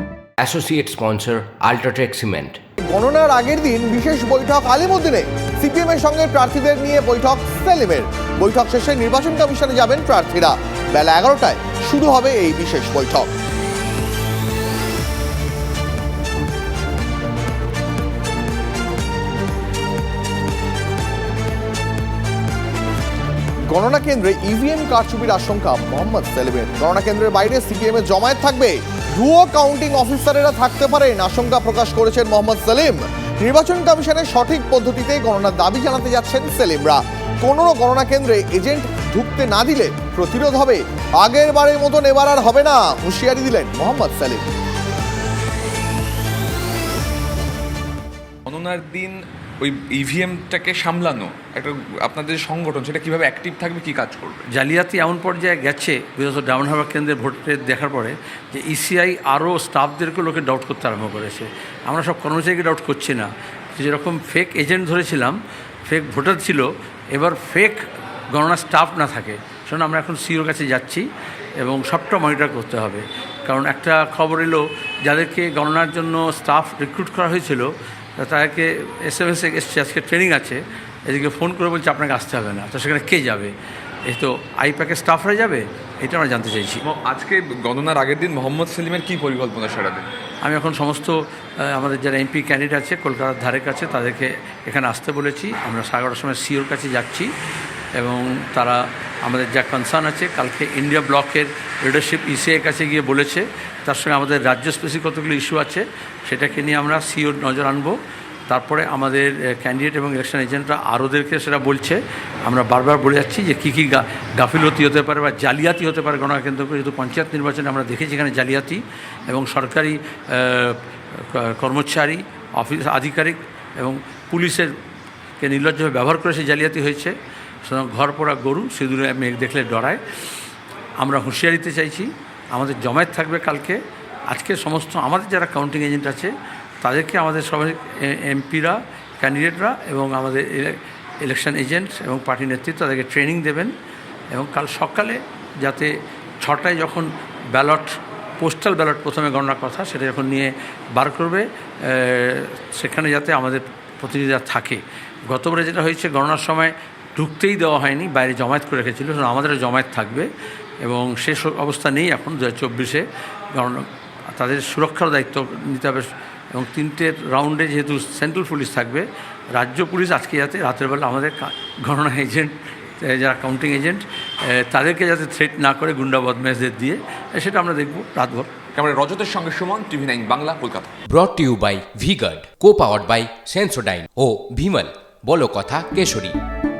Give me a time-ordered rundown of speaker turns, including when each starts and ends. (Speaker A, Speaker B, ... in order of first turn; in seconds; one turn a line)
Speaker A: 0.4-2.6
Speaker B: 2.9-13.3
Speaker B: 23.7-44.5
Speaker C: 48.5-54.5
Speaker D: 54.5-71.1
Speaker D: 71.6-83.5
Speaker D: 84.1-86.8
Speaker C: 86.8-90.1
Speaker D: 90.4-97.3
Speaker D: 98.0-124.7
Speaker D: 125.4-130.0
Speaker D: 131.0-143.7
Speaker D: 144.3-160.3
Speaker D: 160.8-178.5
Speaker C: 178.8-180.9
Speaker A: 181.1-186.3